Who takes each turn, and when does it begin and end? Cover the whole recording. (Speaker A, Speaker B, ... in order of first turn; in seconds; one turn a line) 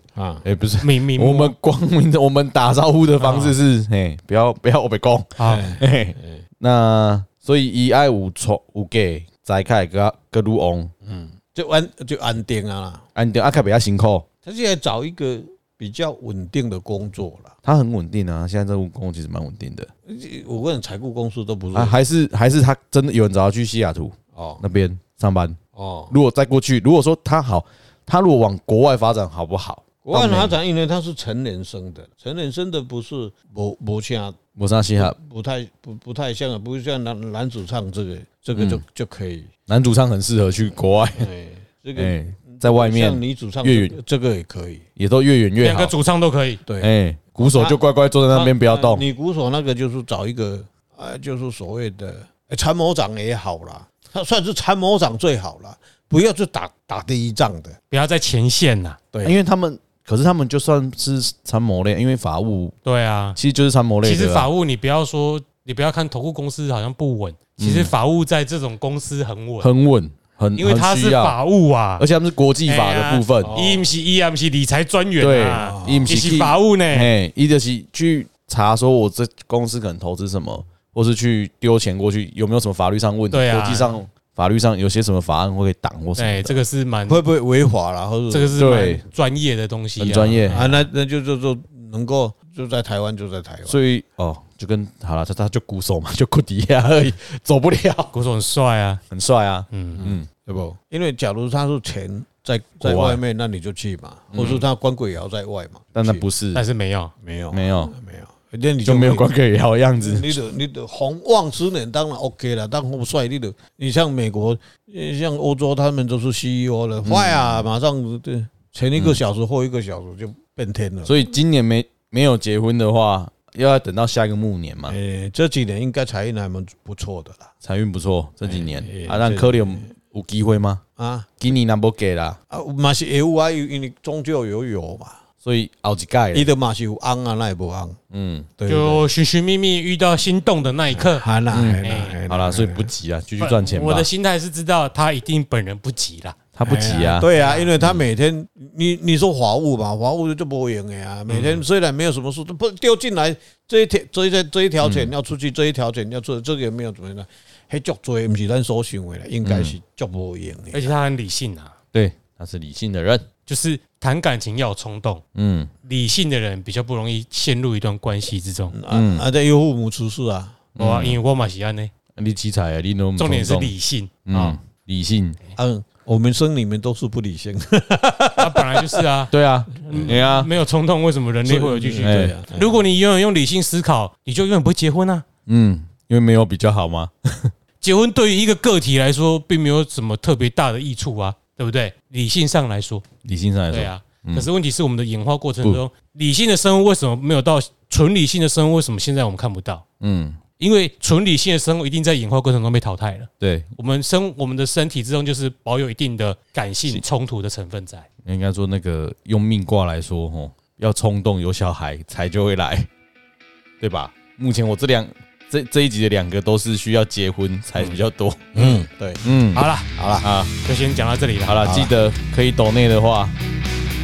Speaker A: 0.1-0.4
Speaker B: 0.4-10.9
Speaker C: 0.8-1.5
Speaker C: 3.2-3.5
Speaker C: 5.4-5.7
Speaker A: 5.4-6.4
Speaker A: 11.0-13.0
Speaker B: 13.2-14.2
Speaker A: 14.4-17.5
Speaker B: 17.6-19.9
Speaker A: 20.1-21.9
Speaker B: 21.7-30.6
Speaker A: 24.3-24.6
Speaker A: 25.8-26.1
Speaker A: 30.0-34.4
Speaker B: 34.5-35.1
Speaker A: 35.0-39.5
Speaker B: 38.5-38.8
Speaker B: 39.7-41.3
Speaker A: 41.1-44.8
Speaker B: 41.9-43.9
Speaker B: 45.0-45.9
Speaker C: 45.6-46.6
Speaker A: 46.6-47.8
Speaker B: 46.8-49.0
Speaker A: 48.3-57.8
Speaker C: 57.9-59.0
Speaker B: 59.2-62.7
Speaker C: 62.8-63.4
Speaker B: 63.3-64.5
Speaker C: 64.0-69.7
Speaker B: 67.6-67.9
Speaker B: 69.6-71.4
Speaker C: 70.6-72.0
Speaker B: 72.0-73.6
Speaker C: 72.7-77.1
Speaker A: 73.4-73.9
Speaker B: 75.2-86.6
Speaker A: 75.6-76.1
Speaker C: 83.3-84.0
Speaker C: 86.2-87.2
Speaker A: 87.1-88.6
Speaker C: 88.3-90.9
Speaker B: 88.5-89.0
Speaker B: 90.0-90.6
Speaker A: 90.5-93.8
Speaker B: 93.7-98.1
Speaker C: 98.1-99.0
Speaker B: 99.1-100.3
Speaker C: 99.7-100.0
Speaker A: 100.0-106.2
Speaker B: 102.8-103.2
Speaker B: 104.3-104.6
Speaker B: 105.9-106.6
Speaker C: 106.5-107.1
Speaker A: 107.2-109.3
Speaker B: 107.5-107.9
Speaker B: 108.8-110.4
Speaker A: 110.0-121.1
Speaker B: 117.0-117.7
Speaker B: 119.0-119.2
Speaker B: 121.0-125.0
Speaker A: 124.9-127.5
Speaker B: 127.6-130.8
Speaker A: 128.4-129.9
Speaker A: 131.0-131.3
Speaker B: 131.4-132.4
Speaker A: 132.5-135.2
Speaker B: 135.4-136.5
Speaker A: 136.3-138.0
Speaker B: 138.1-138.5
Speaker A: 138.6-139.0
Speaker C: 138.7-141.2
Speaker A: 140.9-142.9
Speaker B: 141.5-144.1
Speaker C: 141.8-142.2
Speaker C: 143.4-147.7
Speaker B: 146.5-148.0
Speaker A: 146.6-160.9
Speaker C: 151.3-151.6
Speaker B: 154.8-155.1
Speaker B: 159.4-159.8
Speaker C: 160.7-161.7
Speaker B: 161.9-163.3
Speaker C: 163.4-165.2
Speaker B: 165.3-165.7
Speaker C: 165.8-168.8
Speaker A: 168.7-170.6
Speaker B: 168.9-169.2
Speaker B: 170.8-171.2
Speaker C: 170.8-171.9
Speaker B: 172.2-173.7
Speaker C: 173.2-174.6
Speaker B: 174.2-175.4
Speaker A: 175.6-179.0
Speaker C: 178.4-185.2
Speaker B: 179.3-180.5
Speaker A: 179.9-180.2
Speaker A: 181.4-182.8
Speaker B: 182.0-182.3
Speaker B: 185.5-187.5
Speaker C: 187.8-193.0
Speaker B: 193.2-194.5
Speaker C: 193.7-199.8
Speaker B: 200.0-200.4
Speaker C: 200.6-208.1
Speaker B: 203.4-203.7
Speaker B: 208.2-212.9
Speaker B: 213.8-218.6
Speaker A: 218.5-219.2
Speaker B: 219.2-219.7
Speaker C: 219.5-219.9
Speaker A: 219.9-220.3
Speaker B: 220.2-220.5
Speaker C: 220.6-221.7
Speaker B: 221.4-223.3
Speaker A: 221.6-221.9